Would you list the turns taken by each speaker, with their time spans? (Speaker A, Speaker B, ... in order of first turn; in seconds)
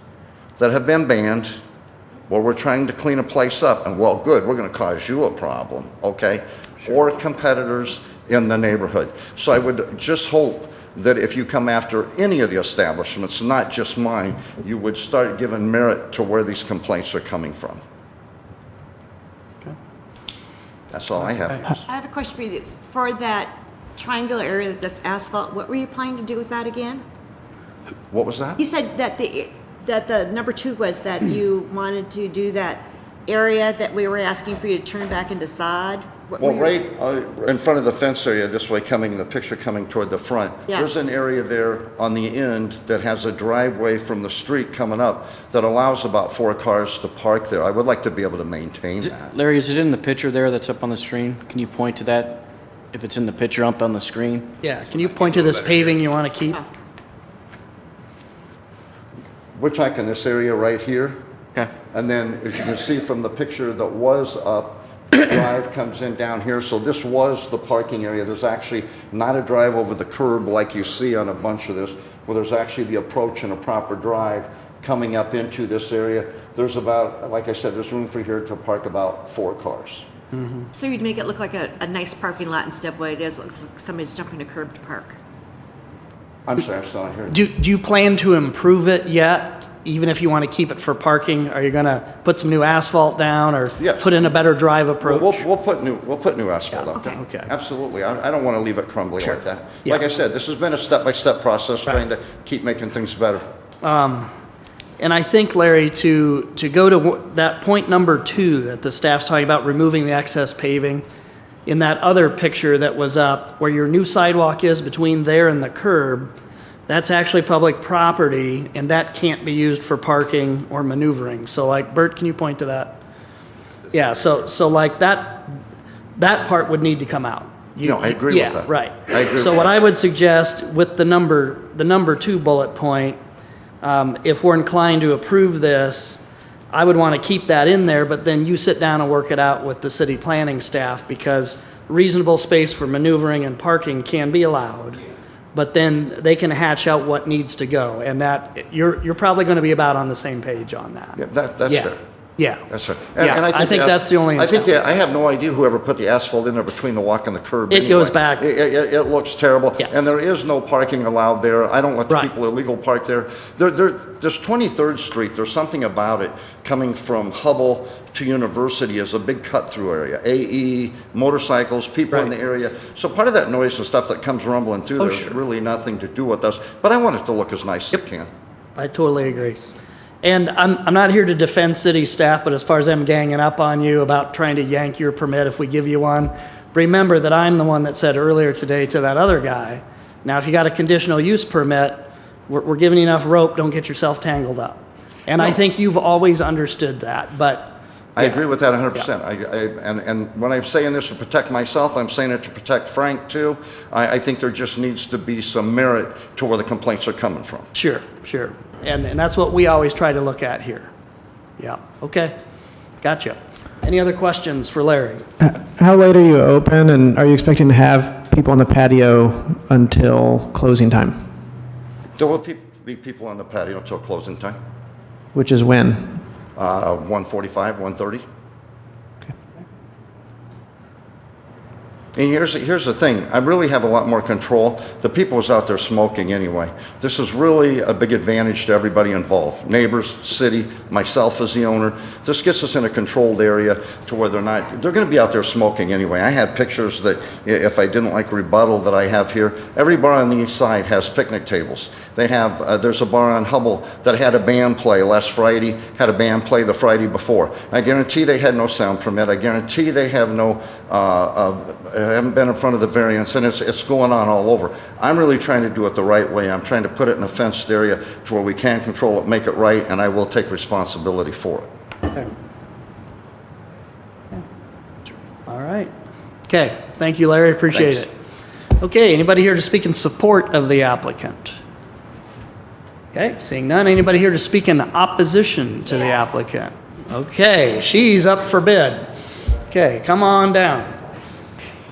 Speaker A: 0.6-1.6, 2.3-17.8, 20.9-21.8, 28.1-28.6, 36.4-49.3, 59.5-61.2, 61.9-80.1, 86.5-87.4, 93.8-94.2, 95.0-103.4, 127.8-129.7, 151.2-152.0, 152.7-178.3, 198.2-207.7, 222.2-224.6, 226.6-228.2, 232.1-271.7, 277.7-278.0
Speaker B: 21.9-27.0, 28.6-36.7, 80.7-85.1
Speaker C: 49.0-54.5
Speaker D: 54.6-56.6, 80.4-80.7, 87.3-95.4, 97.0-97.5, 99.2-100.0, 103.8-104.3, 105.0-111.0, 111.7-116.3, 116.9-123.0, 123.9-125.5, 126.2-133.2, 133.8-145.0, 145.5-151.2, 151.7-152.6, 153.2-154.8, 157.7-158.4, 159.8-160.1, 175.0-175.3, 178.8-179.7, 180.2-198.4, 207.7-210.9, 211.6-212.3, 213.0-215.2, 275.5-275.9, 276.5-278.1, 278.8-281.6, 283.1-289.1, 289.7-290.9
Speaker E: 215.4-221.3, 225.3-226.2